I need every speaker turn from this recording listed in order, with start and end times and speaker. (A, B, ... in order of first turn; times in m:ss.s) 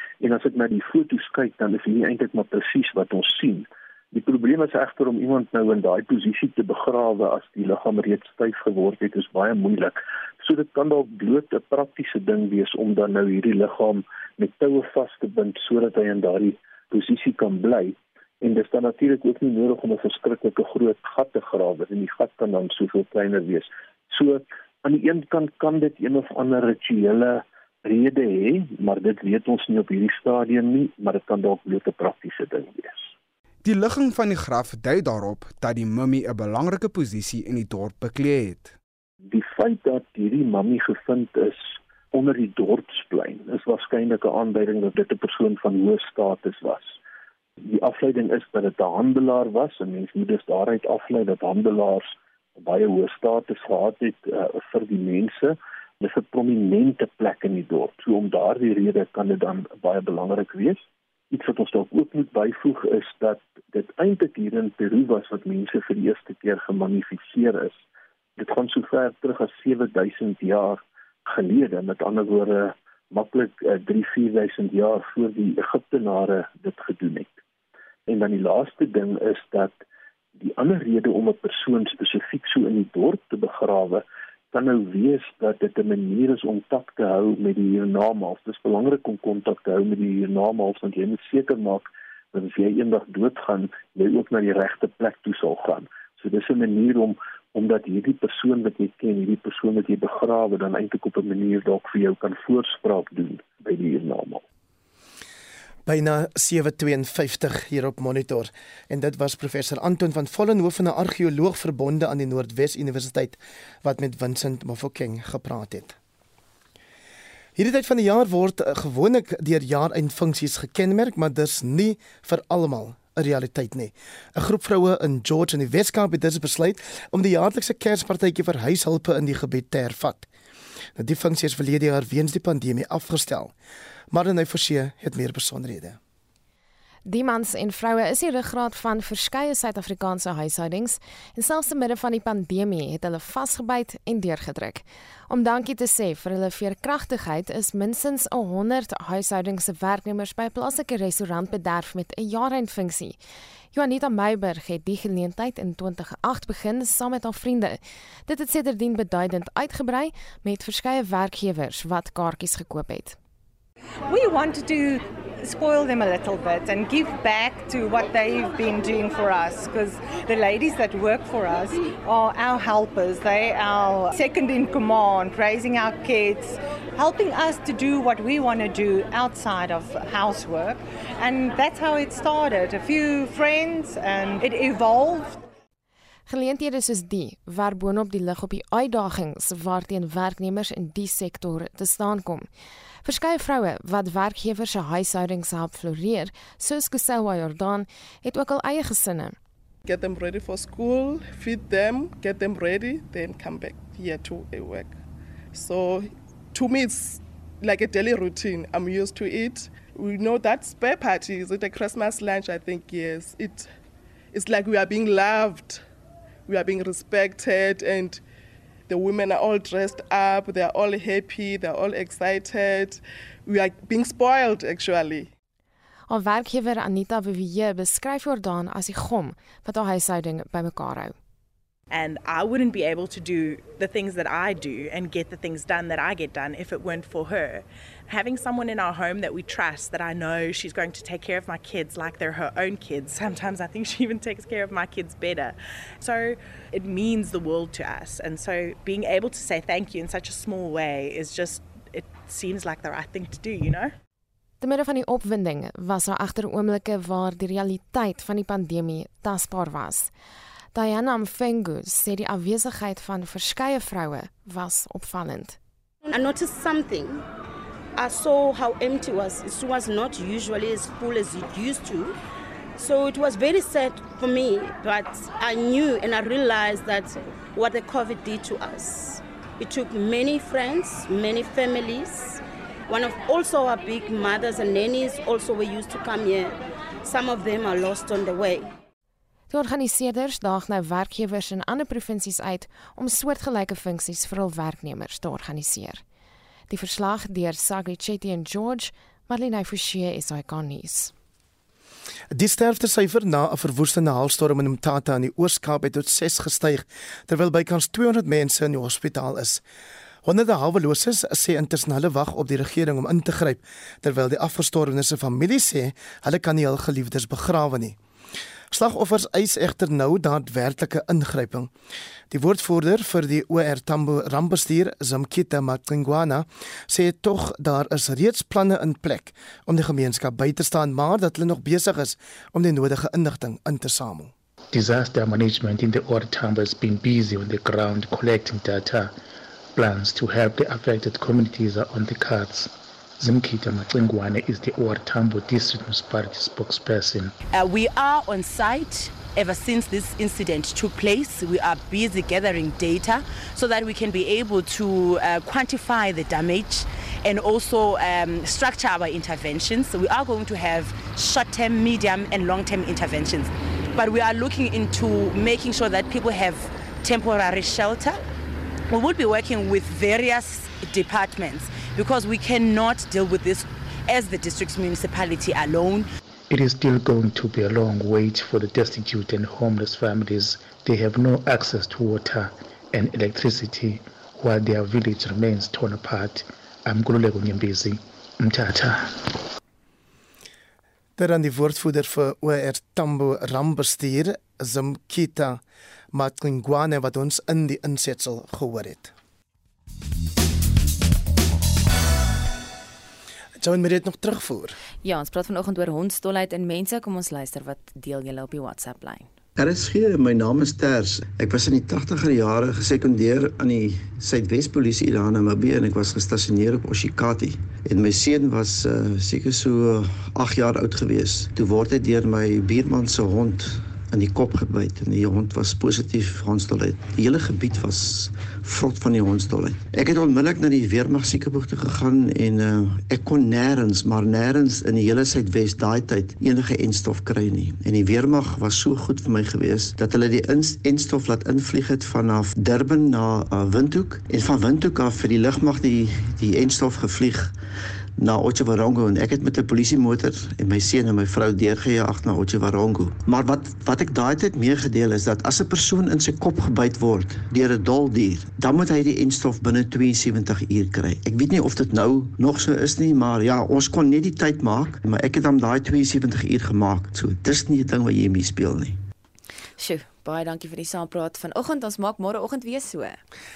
0:00.2-0:33.1 A
0:33.6-0:38.8 B
0:39.3-0:47.0 A
0:47.6-1:07.8 A
1:08.4-1:17.4 A
1:18.1-1:19.8 A
1:20.4-1:44.4 A
1:45.9-1:56.0 C
1:57.6-2:10.3 C
2:11.0-2:13.5 C
2:14.1-2:16.0 C
2:17.1-2:33.2 D
2:33.7-2:43.2 D
2:44.1-3:05.4 E
3:06.3-3:12.5 D
3:13.0-3:19.4 D
3:19.8-3:25.0 F
3:25.5-3:33.7 F
3:34.3-3:35.8 F
3:36.5-3:38.2 F
3:38.9-3:45.3 F
3:46.1-3:51.2 D
3:51.9-4:13.9 G
4:14.6-4:20.1 D
4:20.7-4:25.6 D
4:26.0-4:27.2 H
4:27.9-4:32.2 H
4:32.8-4:48.7 H
4:49.5-4:56.0 D
4:56.7-5:01.1 D
5:02.3-5:09.6 C
5:10.2-5:18.0 C
5:18.7-5:21.7 C
5:22.3-5:34.3 C
5:34.7-5:39.2 I
5:39.8-5:47.3 I
5:47.5-6:08.3 J
6:08.9-6:16.1 J
6:16.5-6:29.3 I
6:31.2-6:39.1 C
6:43.6-6:44.8 C
6:45.0-6:49.3 K
6:49.6-7:27.5 L
7:28.2-7:49.0 L
7:49.8-7:53.2 K